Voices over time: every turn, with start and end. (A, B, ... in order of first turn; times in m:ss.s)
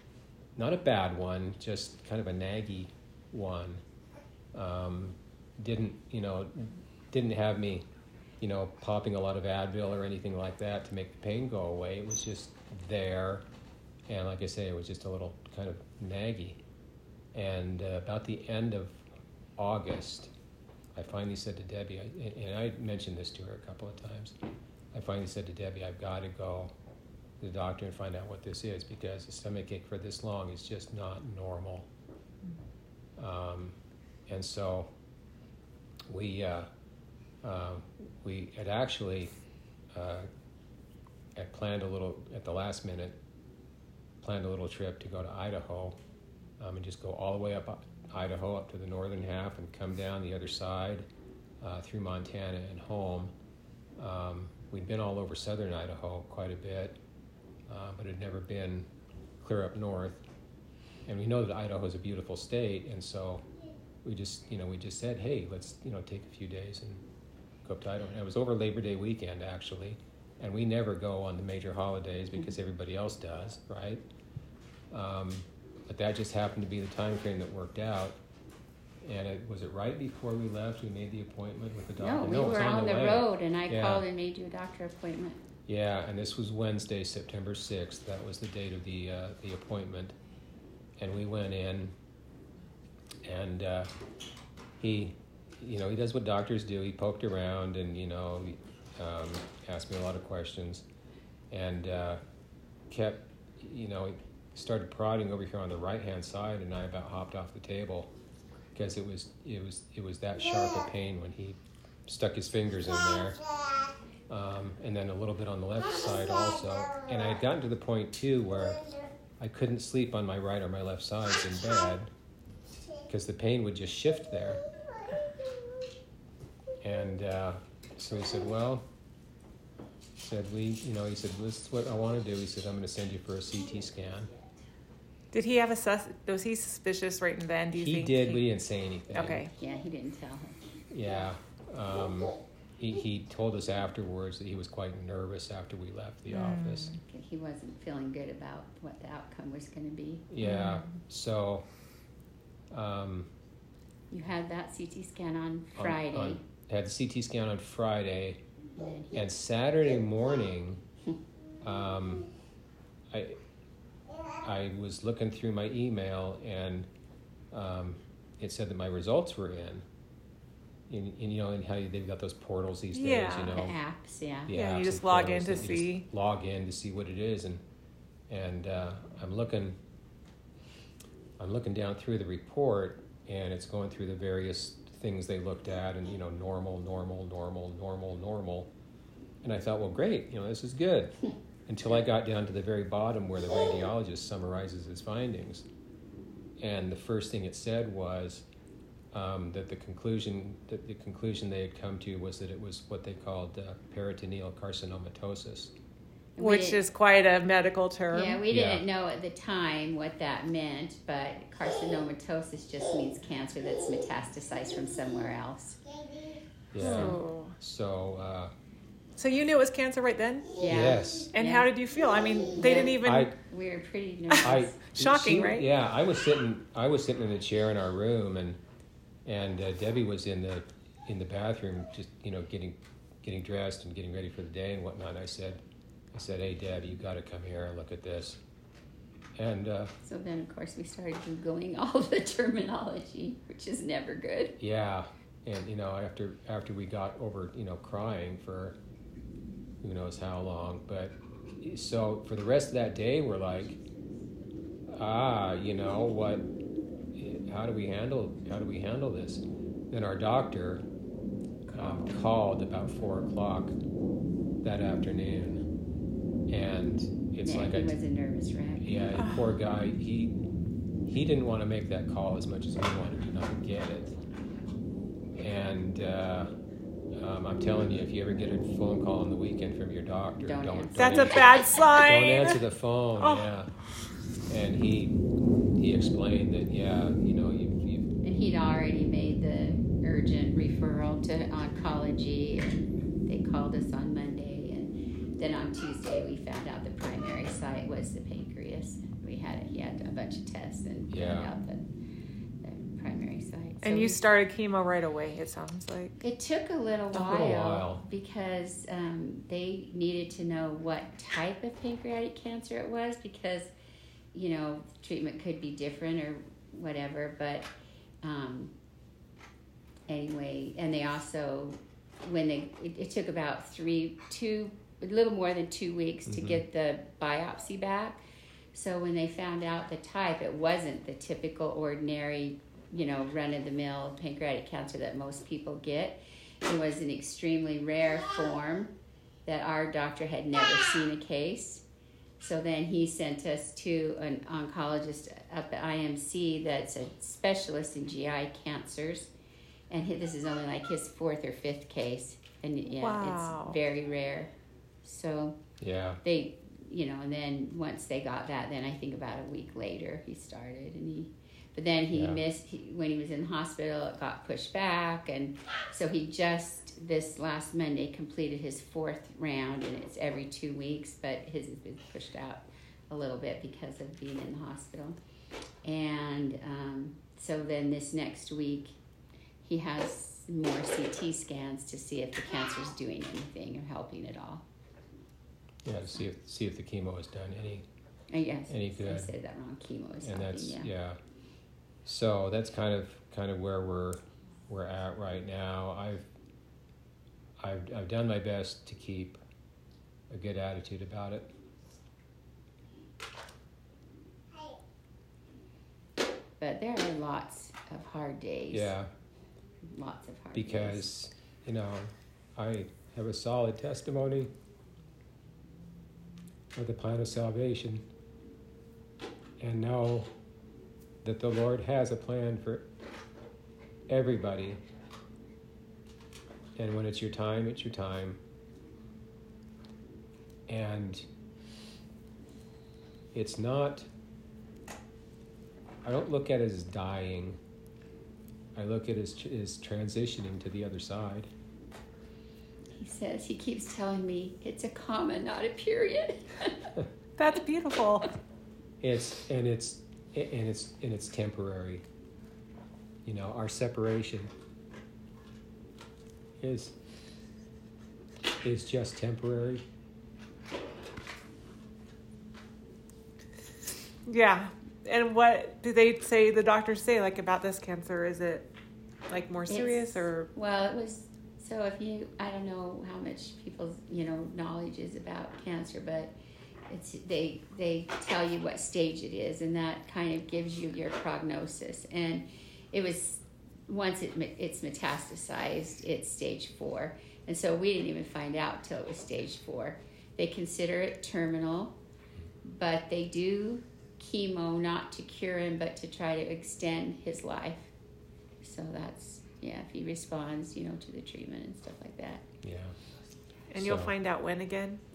0:00.6-0:03.8 A
0:04.5-0:07.8 A
0:08.4-0:13.4 A
0:14.1-0:16.6 A
0:17.3-0:19.0 A
0:19.6-0:20.3 A
0:20.9-0:24.4 A
0:24.9-0:26.7 A
0:27.4-0:31.9 A
0:33.2-0:33.8 A
0:34.3-0:34.9 A
0:36.1-0:36.7 A
0:37.4-0:39.3 A
0:39.9-0:40.3 A
0:41.3-0:43.2 A
0:44.2-0:46.0 A
0:46.6-0:51.0 A
0:51.6-0:53.3 A
0:54.0-0:57.0 A
0:57.7-0:58.9 A
0:59.4-1:00.2 A
1:01.0-1:03.5 A
1:04.0-1:07.0 A
1:07.6-1:14.0 A
1:14.9-1:18.2 A
1:19.0-1:24.0 A
1:22.0-1:25.4 B
1:25.7-1:30.2 A
1:31.0-1:32.0 A
1:33.2-1:33.9 A
1:34.8-1:40.8 A
1:41.5-1:42.2 A
1:42.9-1:48.1 A
1:48.7-1:53.4 A
1:54.3-2:02.1 A
2:03.0-2:04.6 A
2:06.8-2:08.9 A
2:10.2-2:14.3 A
2:15.3-2:18.4 C
2:17.7-2:19.4 A
2:19.1-2:19.5 C
2:19.5-2:20.6 B
2:20.9-2:26.9 A
2:26.3-2:27.0 C
2:27.0-2:30.3 B
2:30.3-2:31.7 A
2:30.4-2:31.0 C
2:32.7-2:33.3 A
2:34.1-2:36.4 B
2:35.8-2:38.4 A
2:38.8-2:39.1 B
2:39.1-2:40.8 A
2:41.6-2:42.3 A
2:43.1-2:43.4 A
2:44.4-2:46.9 A
2:47.5-2:49.8 A
2:50.9-2:53.8 A
2:52.9-2:53.7 C
2:53.5-2:54.5 B
2:54.4-2:57.6 A
2:54.5-2:56.0 C
2:58.3-2:59.8 A
3:01.4-3:08.7 A
3:09.4-3:15.7 A
3:16.6-3:18.5 A
3:19.1-3:25.7 A
3:26.4-3:26.8 B
3:26.4-3:28.4 C
3:28.1-3:35.8 B
3:28.5-3:28.8 A
3:36.7-3:38.5 A
3:36.8-3:37.6 C
3:36.8-3:37.1 B
3:39.2-3:40.6 C
3:40.6-3:41.7 B
3:40.7-3:41.3 A
3:41.3-3:43.3 C
3:42.6-3:44.8 B
3:43.0-3:43.3 A
3:44.3-3:45.7 C
3:44.4-3:48.6 A
3:49.2-3:55.6 A
3:56.1-3:58.4 A
3:59.4-3:59.9 A
4:00.0-4:04.6 B
4:04.6-4:08.8 A
4:09.8-4:13.8 A
4:14.9-4:16.5 A
4:17.1-4:20.8 A
4:21.7-4:23.8 A
4:21.8-4:22.0 C
4:24.6-4:25.7 A
4:26.5-4:28.0 A
4:27.4-4:29.0 B
4:28.8-4:30.4 A
4:29.2-4:29.4 C
4:31.0-4:34.2 A
4:35.4-4:36.5 A
4:37.2-4:43.7 A
4:40.4-4:41.8 B
4:41.0-4:42.6 C
4:43.2-4:43.5 C
4:44.5-4:45.2 A
4:45.8-4:48.1 A
4:48.2-5:01.9 B
5:01.1-5:01.5 A
5:02.6-5:04.2 B
5:03.8-5:06.1 C
5:06.2-5:13.7 B
5:07.1-5:08.0 A
5:14.3-5:17.7 B
5:18.2-5:18.7 B
5:20.1-5:28.2 B
5:26.3-5:26.6 A
5:28.7-5:38.9 B
5:39.4-5:41.8 B
5:42.4-5:49.3 B
5:49.9-5:54.5 B
5:53.0-5:53.8 C
5:55.0-5:55.6 B
5:55.8-5:56.2 A
5:56.2-6:15.2 B
6:02.1-6:02.4 A
6:15.8-6:18.9 B
6:19.6-6:24.6 B
6:25.8-6:27.8 A
6:28.3-6:30.9 B
6:28.7-6:29.3 A
6:30.2-6:31.2 A
6:32.0-6:36.3 A
6:37.6-6:39.4 A
6:40.3-6:41.5 A
6:46.6-6:48.9 B
6:48.7-6:49.1 A
6:49.8-6:51.0 B
6:50.5-6:54.5 A
6:56.7-6:58.1 A
6:59.6-7:00.3 A
7:01.2-7:02.9 A
7:04.1-7:04.8 A
7:06.8-7:08.4 A
7:10.7-7:11.2 A
7:13.3-7:14.1 A
7:16.0-7:17.6 A
7:18.7-7:21.5 A
7:23.0-7:26.9 B
7:27.4-7:28.3 C
7:29.0-7:32.0 A
7:33.2-7:34.5 A
7:36.6-7:37.0 A
7:38.6-7:39.8 A
7:44.2-7:48.7 C
7:49.3-7:50.5 C
7:49.7-7:56.3 B
7:56.9-8:11.9 B
8:12.6-8:17.9 B
8:18.6-8:22.4 B
8:22.6-8:23.0 A
8:23.7-8:25.0 C
8:23.8-8:24.1 A